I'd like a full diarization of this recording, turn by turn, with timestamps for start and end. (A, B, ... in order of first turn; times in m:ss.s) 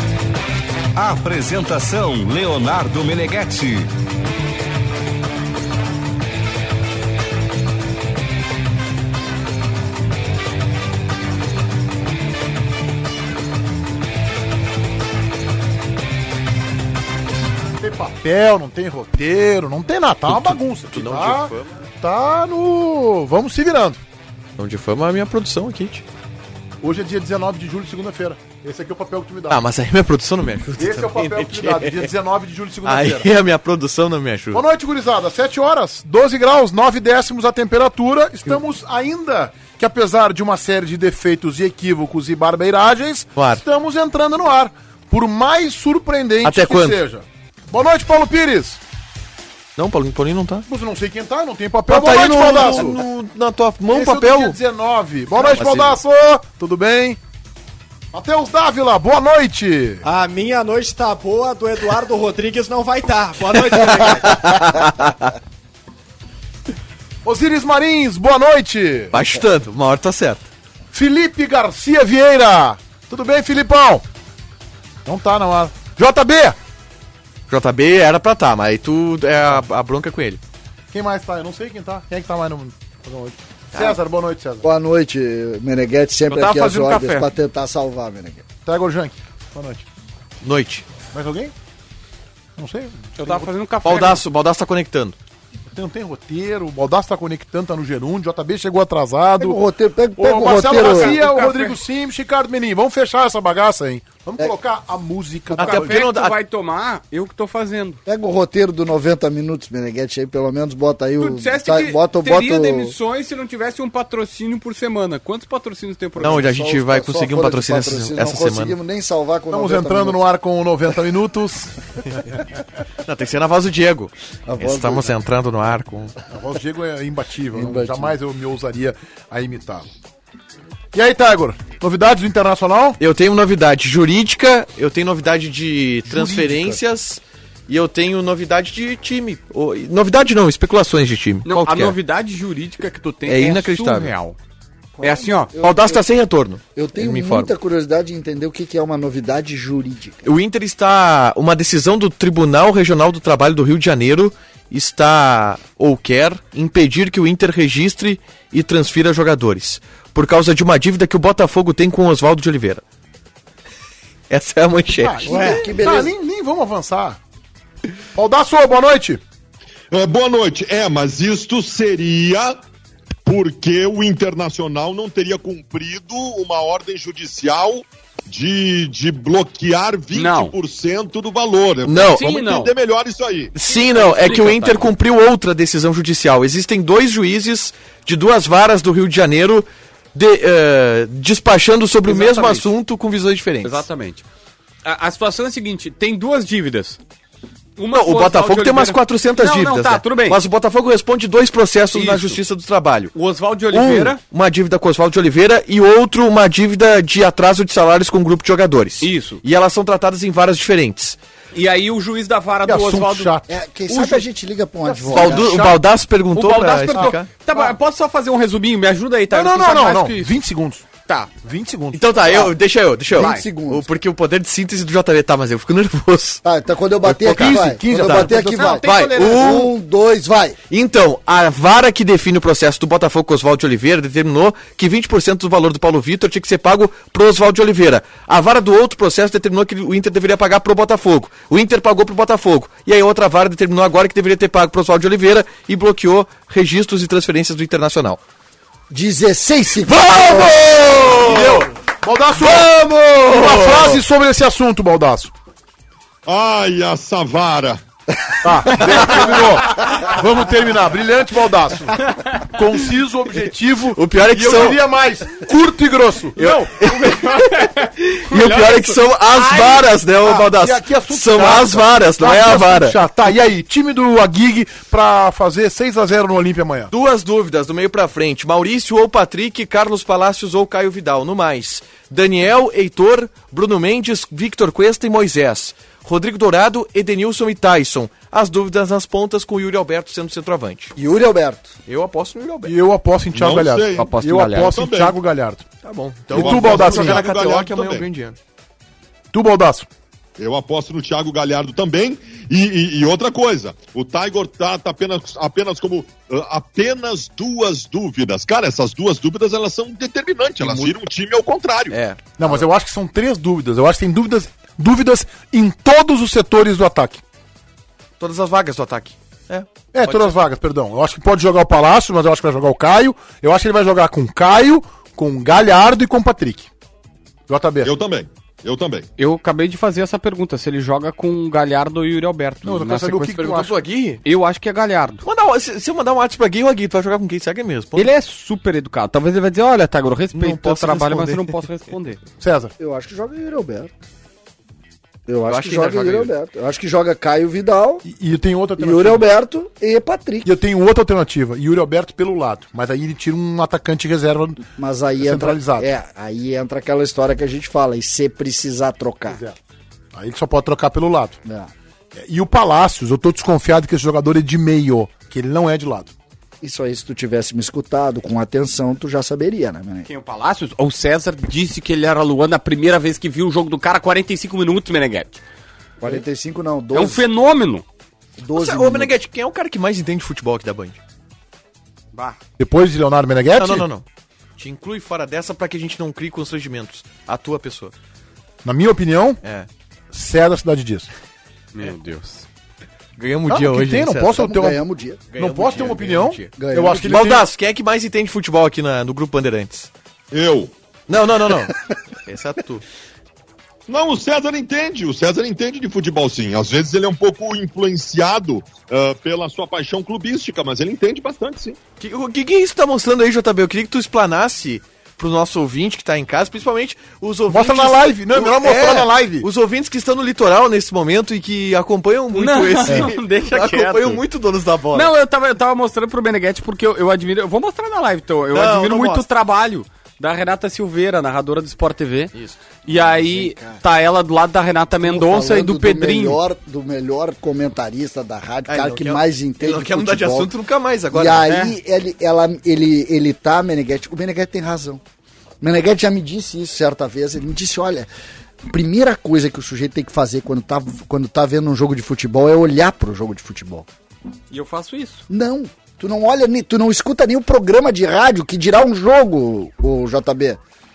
0:01.0-0:03.9 A
0:17.8-0:24.0 B
0:20.3-0:21.7 C
0:24.6-0:26.0 C
0:26.8-0:29.6 B
0:29.5-0:32.1 C
0:30.8-0:33.3 B
0:32.8-0:34.6 C
0:34.5-0:48.8 B
0:43.4-0:43.6 C
0:46.4-0:47.0 C
0:49.8-0:50.7 C
0:50.7-0:53.0 B
0:51.9-0:54.6 C
0:53.9-0:57.2 B
0:55.4-0:56.0 C
0:58.1-1:00.0 B
1:00.0-1:04.6 D
1:03.8-1:05.3 C
1:07.2-1:09.2 B
1:09.1-1:10.5 C
1:10.9-1:14.0 B
1:15.0-1:16.6 B
1:17.5-1:20.4 C
1:20.9-1:24.7 B
1:23.7-1:24.0 C
1:24.6-1:28.4 E
1:26.3-1:27.3 F
1:28.6-1:29.8 B
1:30.4-1:30.8 C
1:31.1-1:31.5 B
1:32.6-1:33.5 B
1:33.2-1:34.2 F
1:33.8-1:35.2 C
1:35.7-1:39.6 B
1:39.4-1:41.2 E
1:40.2-1:46.0 B
1:40.4-1:41.8 F
1:45.5-1:48.0 F
1:45.6-1:46.4 C
1:48.0-1:52.9 E
1:51.2-1:56.4 F
1:56.2-2:00.2 E
1:56.2-1:58.8 C
1:59.5-2:01.7 B
2:03.0-2:06.2 C
2:04.5-2:05.1 E
2:06.3-2:09.9 B
2:07.5-2:08.1 E
2:10.9-2:13.0 B
2:13.0-2:22.0 C
2:16.0-2:16.8 B
2:21.4-2:24.4 F
2:23.3-2:24.1 C
2:25.0-2:26.0 E
2:25.0-2:25.5 F
2:25.6-2:27.5 C
2:26.7-2:30.2 E
2:30.2-2:42.8 C
2:44.3-2:45.4 C
2:45.0-2:47.2 B
2:45.2-2:46.1 E
2:45.3-2:45.6 D
2:48.1-2:49.2 B
2:49.9-2:52.6 G
2:53.2-3:03.5 G
3:00.1-3:00.5 F
3:01.8-3:02.4 C
3:02.0-3:02.7 F
3:03.5-3:13.8 C
3:03.7-3:04.9 F
3:12.0-3:12.7 F
3:13.6-3:14.2 F
3:14.8-3:17.0 F
3:17.8-3:20.4 F
3:17.9-3:23.1 C
3:21.9-3:22.4 F
3:23.1-3:24.2 F
3:23.7-3:31.2 C
3:29.0-3:29.4 F
3:31.5-3:33.3 F
3:32.6-3:33.5 B
3:33.5-3:35.5 E
3:33.9-3:34.2 C
3:34.8-3:35.8 F
3:35.1-3:37.3 C
3:36.3-3:40.3 F
3:39.3-3:40.8 B
3:41.4-3:42.1 B
3:41.9-3:46.4 C
3:42.2-3:42.5 E
3:43.1-3:43.9 E
3:43.2-3:43.4 F
3:46.4-3:50.6 E
3:47.0-3:48.3 C
3:47.1-3:48.7 B
3:48.3-3:49.7 F
3:48.8-3:49.7 C
3:50.7-4:08.2 C
4:08.9-4:11.1 E
4:09.9-4:11.7 C
4:11.2-4:15.3 B
4:12.4-4:14.0 C
4:16.2-4:17.8 G
4:18.4-4:26.6 B
4:18.8-4:19.2 C
4:23.9-4:24.8 C
4:26.4-4:33.0 C
4:26.4-4:29.8 F
4:30.5-4:36.9 B
4:36.9-4:50.9 C
4:51.0-4:51.7 E
4:51.9-4:52.8 C
4:52.6-4:55.6 B
4:53.3-4:54.1 G
4:54.0-4:54.7 F
4:54.6-4:55.1 G
4:55.8-4:58.4 C
4:56.3-4:57.2 B
4:56.3-4:58.0 G
4:59.3-4:59.9 B
5:00.4-5:12.0 G
5:10.6-5:10.9 B
5:11.9-5:12.6 C
5:12.4-5:17.2 B
5:18.2-5:20.2 C
5:19.9-5:26.7 B
5:27.5-5:27.9 B
5:27.8-5:29.1 G
5:29.2-5:33.4 F
5:32.6-5:33.7 B
5:33.3-5:34.2 C
5:34.2-5:35.2 F
5:35.2-5:38.1 C
5:38.0-5:42.2 F
5:40.3-5:41.6 C
5:42.4-5:42.7 B
5:42.8-5:43.9 E
5:45.3-5:48.0 E
5:45.5-5:46.3 C
5:48.0-5:49.3 B
5:48.8-5:50.5 E
5:50.4-5:54.6 B
5:54.7-5:59.4 E
5:55.2-5:55.9 B
5:59.3-5:59.6 B
6:00.1-6:01.4 B
6:01.4-6:01.7 E
6:02.1-6:06.1 B
6:06.6-6:10.1 E
6:10.1-6:15.4 F
6:16.0-6:17.2 E
6:16.9-6:17.8 F
6:18.4-6:19.1 E
6:18.5-6:21.0 C
6:22.6-6:23.9 B
6:23.5-6:24.0 C
6:24.6-6:27.9 C
6:28.6-6:29.4 B
6:29.4-6:29.7 C
6:30.1-6:31.1 B
6:31.7-6:32.4 F
6:33.2-6:34.4 C
6:33.5-6:37.4 B
6:34.4-6:36.0 E
6:35.3-6:36.5 C
6:36.6-6:37.3 E
6:37.1-6:39.9 C
6:40.3-6:40.7 G
6:41.1-6:42.8 C
6:43.9-6:51.8 G
6:52.0-7:05.1 C
6:57.5-6:59.5 B
7:02.3-7:04.2 F
7:04.9-7:12.3 F
7:08.5-7:09.2 C
7:12.3-7:12.6 C
7:12.8-7:16.4 F
7:12.9-7:13.8 E
7:15.0-7:20.5 E
7:18.6-7:21.5 C
7:21.1-7:25.0 E
7:21.4-7:21.7 F
7:25.6-7:28.1 E
7:28.7-7:33.9 E
7:34.5-7:35.2 F
7:35.3-7:40.6 E